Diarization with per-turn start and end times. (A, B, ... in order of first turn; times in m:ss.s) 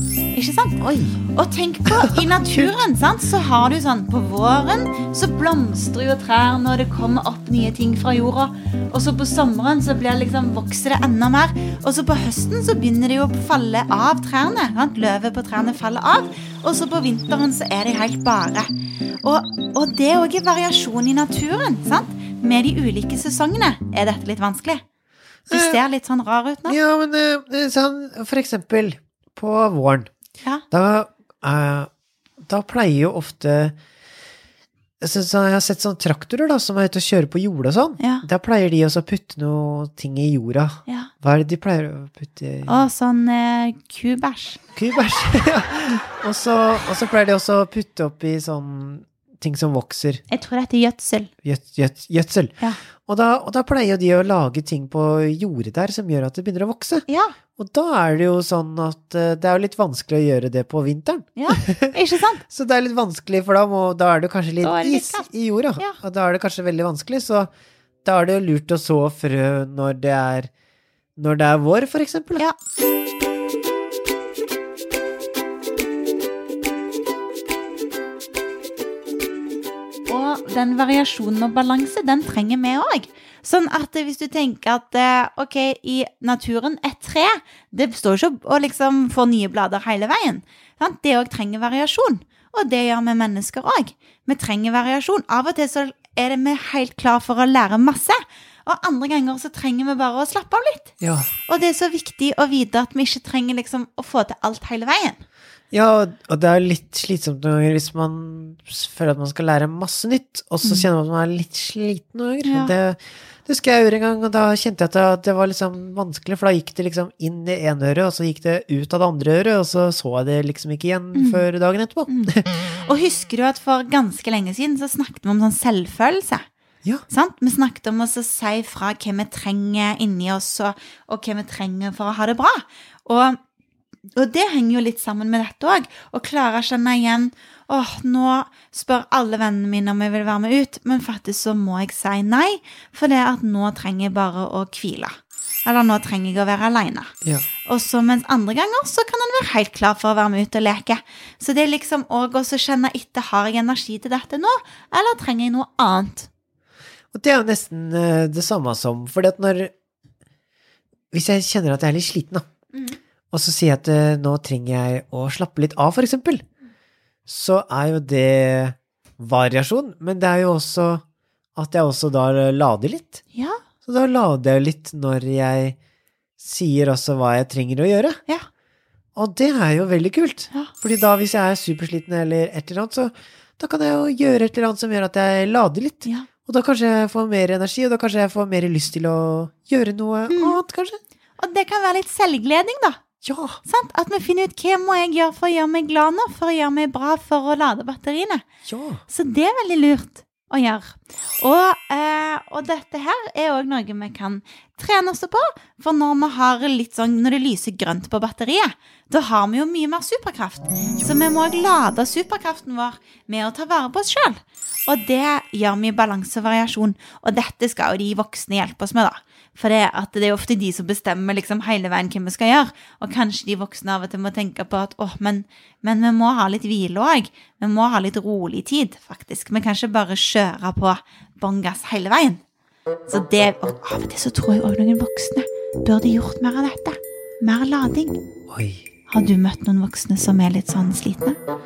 0:00.3-0:24.8 A
0:00.8-0:01.2 B
0:01.8-0:02.8 B
0:25.5-0:25.8 B
0:25.5-0:26.8 A
0:26.6-0:30.1 B
0:30.7-0:31.9 B
0:32.4-0:33.8 B
0:35.0-0:42.9 B
0:38.0-0:38.2 A
0:40.8-0:41.1 A
0:42.6-0:44.6 A
0:44.7-0:50.2 B
0:50.3-0:51.3 A
0:51.4-0:57.0 B
0:57.1-0:57.4 A
0:57.6-1:01.9 B
1:01.4-1:02.4 A
1:02.5-1:07.5 B
1:04.6-1:06.0 A
1:08.0-1:10.5 B
1:11.2-1:12.4 B
1:20.1-1:41.0 A
1:41.0-1:41.3 B
1:41.5-1:45.2 A
1:45.7-2:02.5 B
1:50.6-1:50.9 A
1:52.4-1:52.7 A
2:01.1-2:01.4 A
2:02.1-2:06.4 A
2:07.1-2:13.4 A
2:14.2-2:27.1 A
2:27.6-2:36.3 A
2:37.1-2:39.7 B
2:41.1-2:42.4 B
2:42.7-2:43.0 A
2:43.3-2:46.4 B
2:47.3-2:51.0 B
2:51.6-2:53.2 B
2:53.3-2:53.6 A
2:53.8-2:55.8 B
2:56.4-2:58.2 B
2:59.1-3:11.0 B
3:10.3-3:10.6 A
3:11.4-3:13.0 A
3:13.2-3:13.6 B
3:13.6-3:18.4 A
3:18.6-3:19.0 B
3:19.1-3:52.4 A
3:53.1-3:58.2 A
3:58.5-3:58.8 B
3:59.1-4:01.4 A